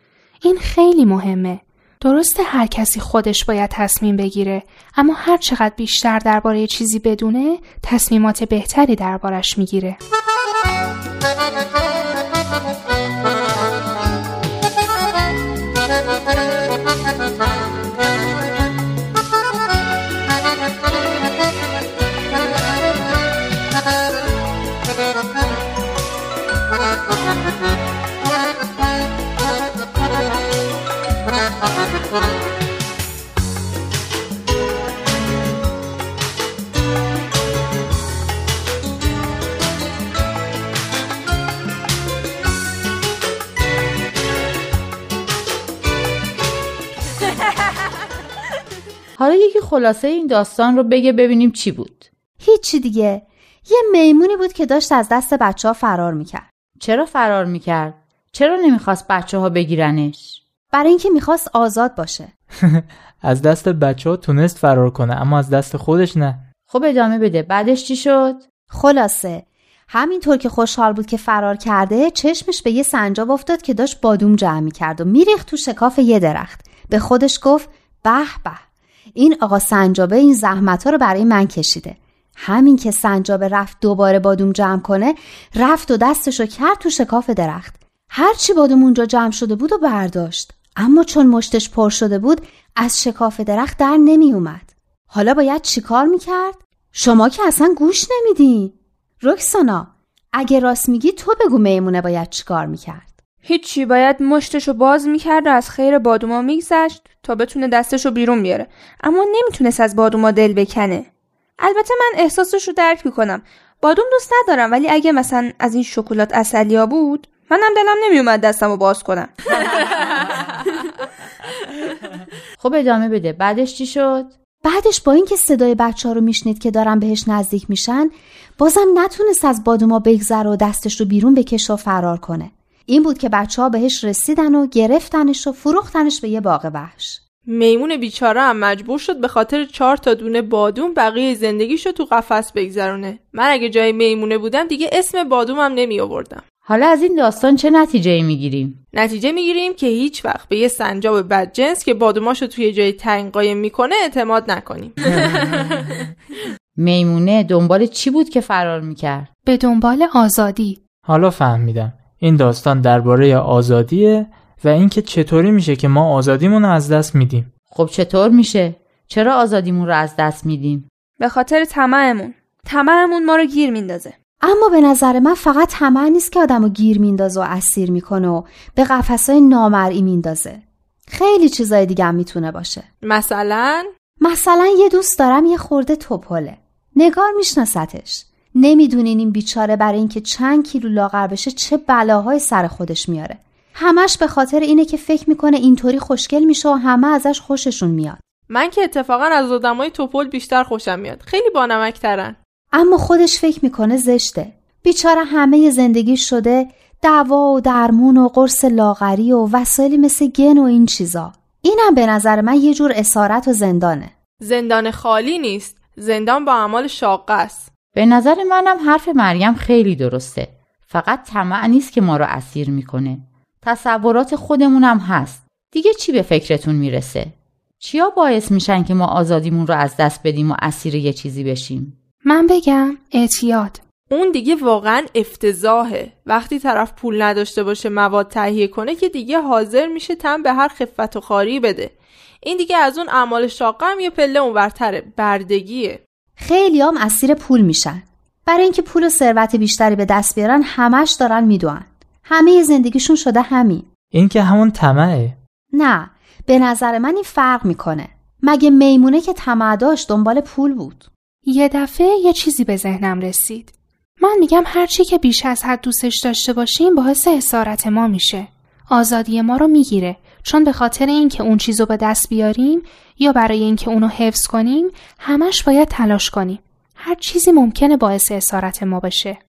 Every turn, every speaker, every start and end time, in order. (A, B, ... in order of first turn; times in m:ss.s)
0:00.4-0:10.0 A
0:49.2-0:52.1 B
0:52.4-0:56.5 C
0:56.8-1:00.4 B
1:00.7-1:02.3 C
1:02.6-1:06.4 D
1:06.7-1:08.4 B
1:08.7-1:18.6 C
1:19.1-1:43.1 C
1:43.4-1:59.8 E
2:02.6-2:04.4 B
2:04.6-2:17.2 C
2:17.5-2:26.4 F
2:26.6-2:28.8 B
2:28.9-2:35.9 F
2:36.8-2:39.3 B
2:39.4-2:40.8 A
2:41.0-2:47.5 D
2:47.7-2:50.9 B
2:51.2-2:54.1 E
2:54.4-3:02.8 C
3:03.0-3:03.9 F
3:04.2-3:18.2 C
3:18.5-3:22.4 F
3:22.7-3:34.1 C
3:34.4-3:37.7 F
3:37.9-3:52.0 B
3:52.2-3:53.8 A
3:54.1-4:06.0 F
4:06.4-4:13.9 C
4:14.1-4:15.4 D
4:15.7-4:21.1 C
4:21.4-4:39.4 A